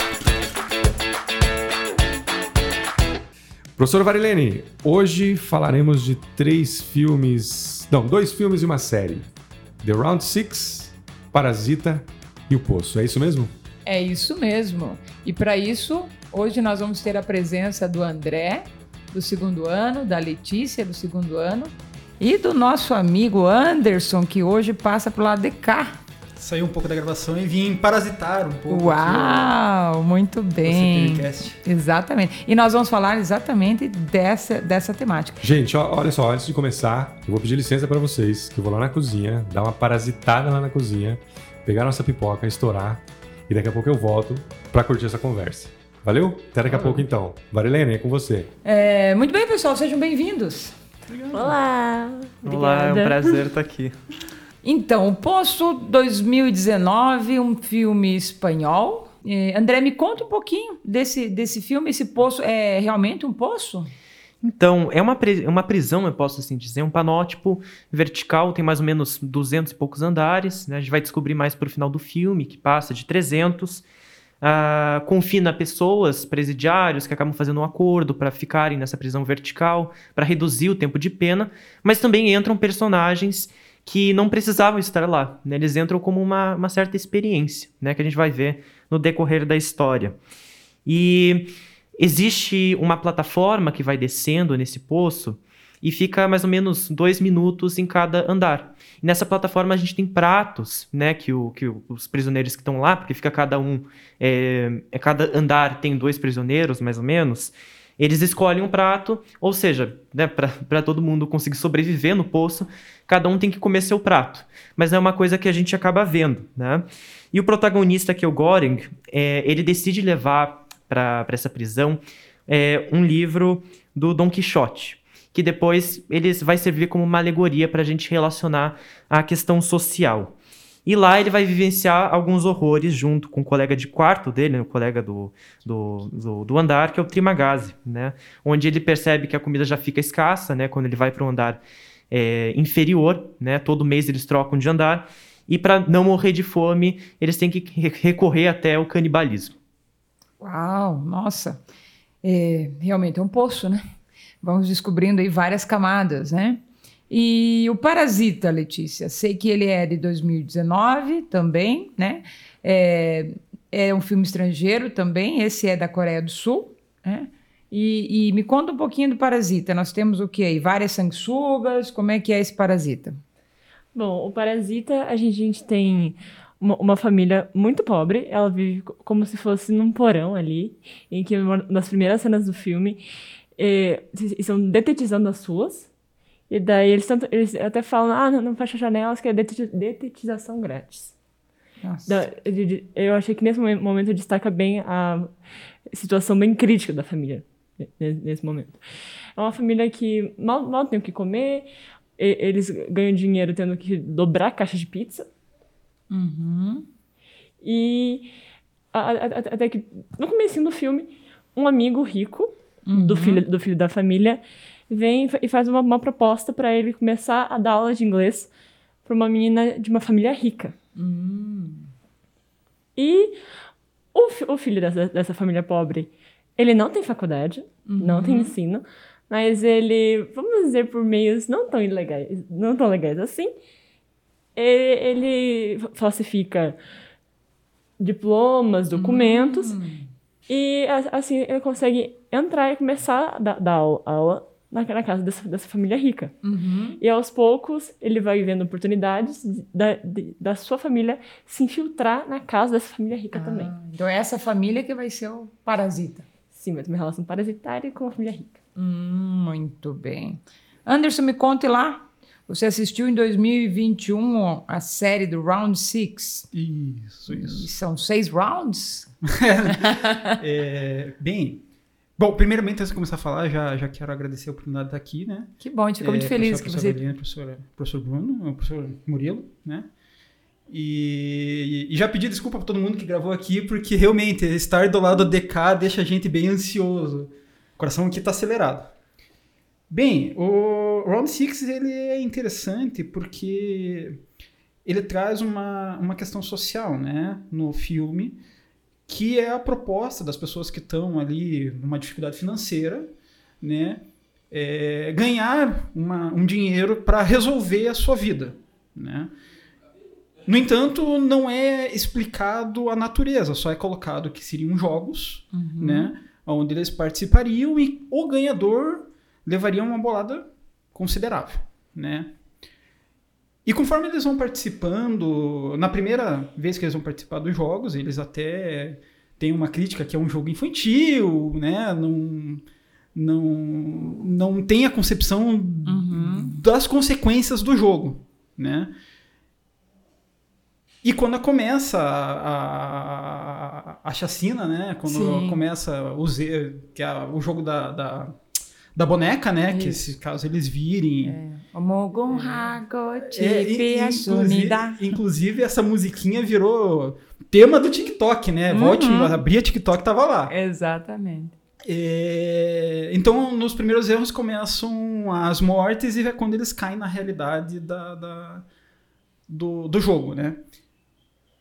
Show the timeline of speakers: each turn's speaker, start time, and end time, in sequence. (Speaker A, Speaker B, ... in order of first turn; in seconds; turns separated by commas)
Speaker A: 3.8-9.3, Speaker A: 9.8-13.5, Speaker B: 13.8-26.0, Speaker C: 26.4-29.5, Speaker B: 28.7-35.4, Speaker C: 30.6-31.6, Speaker A: 35.4-48.5, Speaker C: 46.7-47.0, Speaker B: 48.6-50.7, Speaker C: 51.1-51.6, Speaker D: 51.3-53.4, Speaker E: 52.4-54.0, Speaker B: 54.6-63.9, Speaker E: 64.4-73.8, Speaker E: 74.4-90.2, Speaker E: 90.8-130.3, Speaker E: 130.8-149.6, Speaker B: 150.4-151.6, Speaker B: 152.2-153.8, Speaker B: 154.4-173.2, Speaker D: 173.9-183.0, Speaker D: 183.6-185.9, Speaker D: 186.5-191.1, Speaker B: 191.8-192.2, Speaker D: 192.1-195.3, Speaker D: 195.9-198.8, Speaker D: 199.4-205.3, Speaker B: 206.1-206.8, Speaker D: 207.6-208.3, Speaker D: 208.9-218.5, Speaker B: 212.9-213.4, Speaker D: 219.0-220.7, Speaker B: 220.9-221.9, Speaker D: 222.9-223.3, Speaker D: 224.1-233.5, Speaker B: 227.8-228.6, Speaker D: 234.5-236.8, Speaker D: 238.0-239.8, Speaker B: 238.9-240.1, Speaker D: 240.5-246.3, Speaker B: 246.4-247.0, Speaker D: 247.0-253.7, Speaker B: 253.3-256.2, Speaker D: 256.5-258.6, Speaker B: 258.8-266.5, Speaker C: 266.5-267.7, Speaker B: 267.3-269.1, Speaker C: 269.3-271.6, Speaker B: 269.7-270.4, Speaker C: 272.2-279.9, Speaker B: 275.6-277.0, Speaker C: 280.7-288.9, Speaker C: 289.9-294.2, Speaker C: 294.8-298.4, Speaker C: 299.1-309.3, Speaker C: 310.4-322.3, Speaker B: 315.5-316.1, Speaker C: 323.6-338.9, Speaker B: 335.9-336.5, Speaker C: 341.0-348.4, Speaker B: 345.1-345.6, Speaker C: 348.9-351.4, Speaker B: 349.7-350.2, Speaker B: 351.2-355.1, Speaker C: 352.3-352.7, Speaker C: 353.2-360.5, Speaker B: 358.7-359.4, Speaker B: 360.5-361.5, Speaker C: 361.8-368.6, Speaker C: 369.5-370.6